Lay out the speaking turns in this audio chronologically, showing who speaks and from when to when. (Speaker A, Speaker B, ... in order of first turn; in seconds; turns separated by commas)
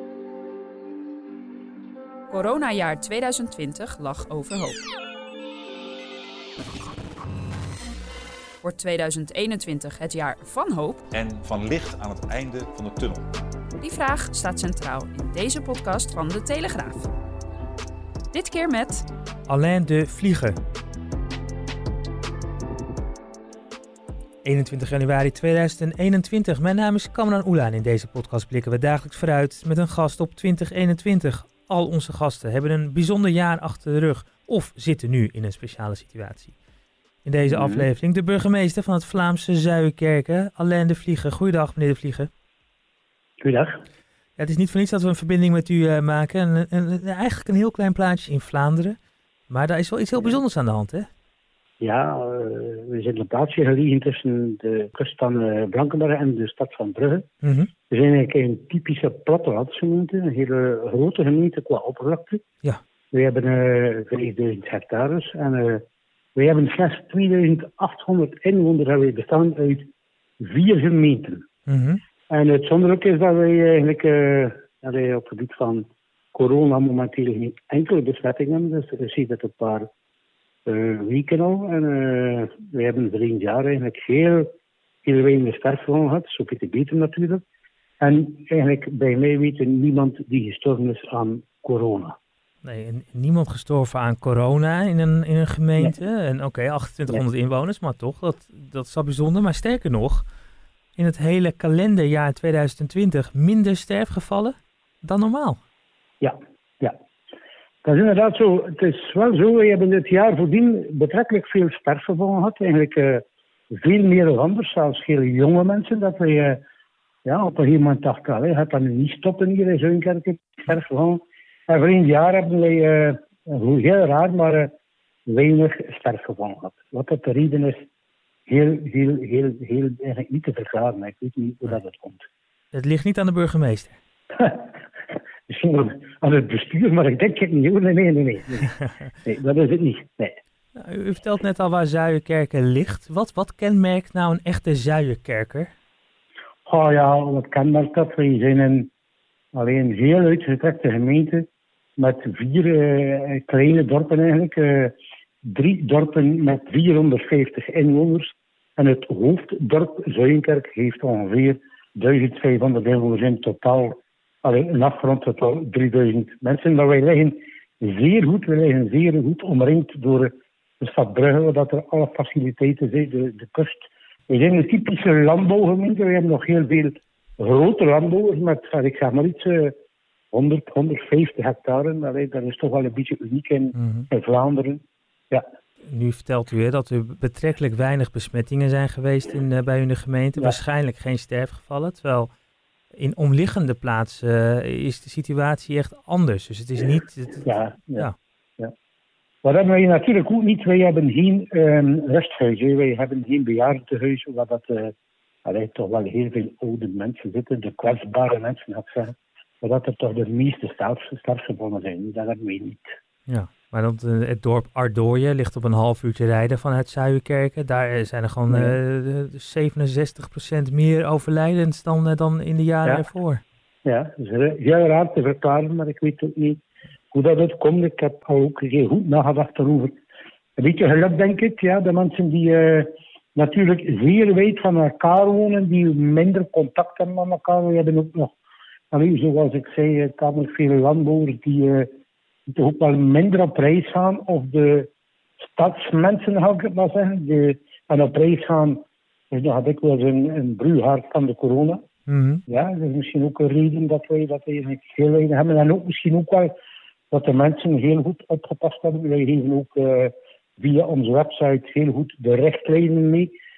Speaker A: 2.3-4.8, Speaker A: 8.6-11.0, Speaker B: 11.1-13.2, Speaker A: 13.8-17.1, Speaker A: 18.3-19.0, Speaker C: 19.5-20.6, Speaker C: 24.4-36.5, Speaker C: 37.2-42.3, Speaker D: 37.5-37.9, Speaker D: 43.4-43.8, Speaker C: 44.4-49.0, Speaker C: 49.5-51.0, Speaker D: 51.8-57.2, Speaker C: 57.4-57.7, Speaker D: 57.9-62.4, Speaker D: 63.1-65.8, Speaker D: 66.3-71.5, Speaker C: 71.7-72.0, Speaker D: 72.3-79.9, Speaker D: 80.7-84.5, Speaker D: 85.0-87.4, Speaker D: 88.0-92.2, Speaker C: 92.6-100.2, Speaker C: 101.0-105.6, Speaker D: 106.2-107.0, Speaker D: 107.8-116.6, Speaker D: 117.2-124.7, Speaker D: 125.2-127.8, Speaker D: 128.5-132.2, Speaker C: 132.7-133.9, Speaker D: 134.4-134.7, Speaker D: 135.5-140.3, Speaker C: 140.8-145.7, Speaker D: 146.7-148.9, Speaker D: 149.5-151.4, Speaker D: 152.0-179.7, Speaker D: 180.3-185.4, Speaker C: 183.8-184.1, Speaker C: 185.9-192.3, Speaker C: 192.9-198.1, Speaker D: 197.4-198.7, Speaker D: 199.4-212.9, Speaker C: 213.3-223.4, Speaker D: 218.5-218.8, Speaker D: 223.8-226.6, Speaker D: 227.1-230.0, Speaker D: 230.6-238.3, Speaker D: 238.9-241.9, Speaker D: 242.5-244.9, Speaker D: 245.4-251.8, Speaker C: 252.1-252.4, Speaker D: 252.5-256.5, Speaker D: 257.1-263.3